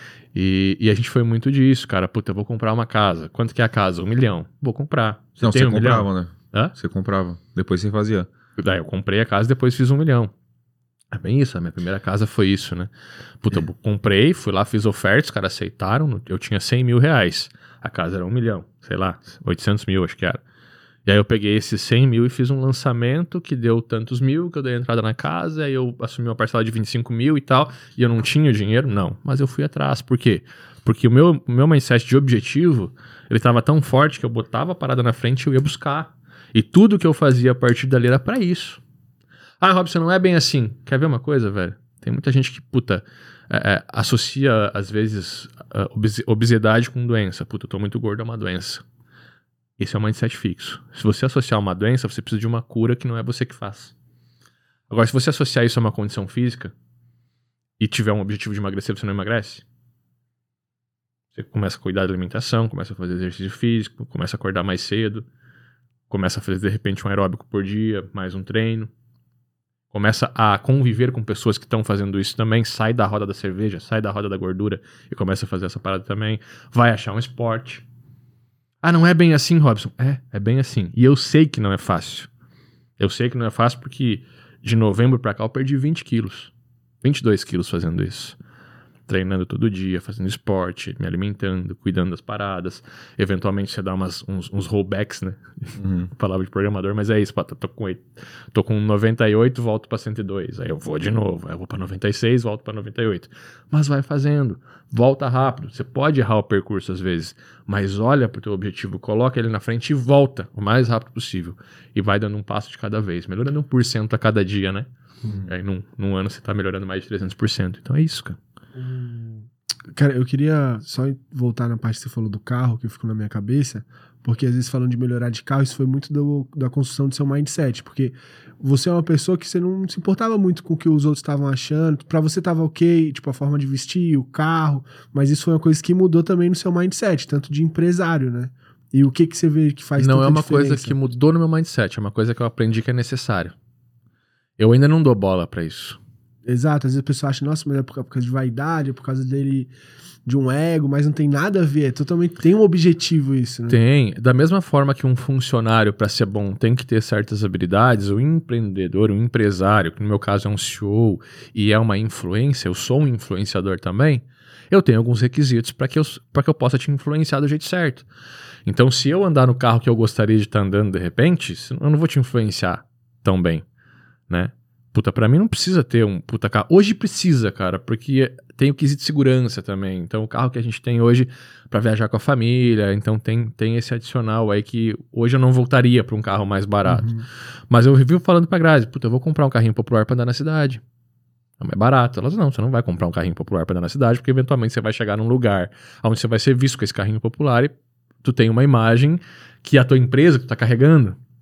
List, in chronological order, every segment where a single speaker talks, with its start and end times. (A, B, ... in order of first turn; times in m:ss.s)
0:00.3-0:06.7 A
0:05.4-0:08.3 B
0:08.6-0:10.3 A
0:11.1-0:20.4 A
0:21.0-0:38.8 A
0:39.6-0:48.8 A
0:49.8-0:53.9 A
0:54.9-0:56.7 A
0:57.8-0:59.6 A
1:01.3-1:05.2 A
1:06.1-1:08.9 A
1:09.9-1:17.8 A
1:18.8-1:22.3 A
1:23.0-1:26.5 A
1:27.0-1:28.4 A
1:29.1-1:54.9 A
1:35.8-1:36.1 B
1:55.2-1:55.5 B
1:55.4-1:58.4 A
1:58.7-2:21.0 C
2:20.0-2:23.5 A
2:24.6-2:26.0 A
2:26.4-2:29.7 C
2:30.2-2:33.8 C
2:33.7-2:48.1 A
2:48.6-2:53.6 A
2:54.3-3:07.1 A
3:06.8-3:07.2 C
3:07.7-3:10.8 A
3:11.6-3:21.2 A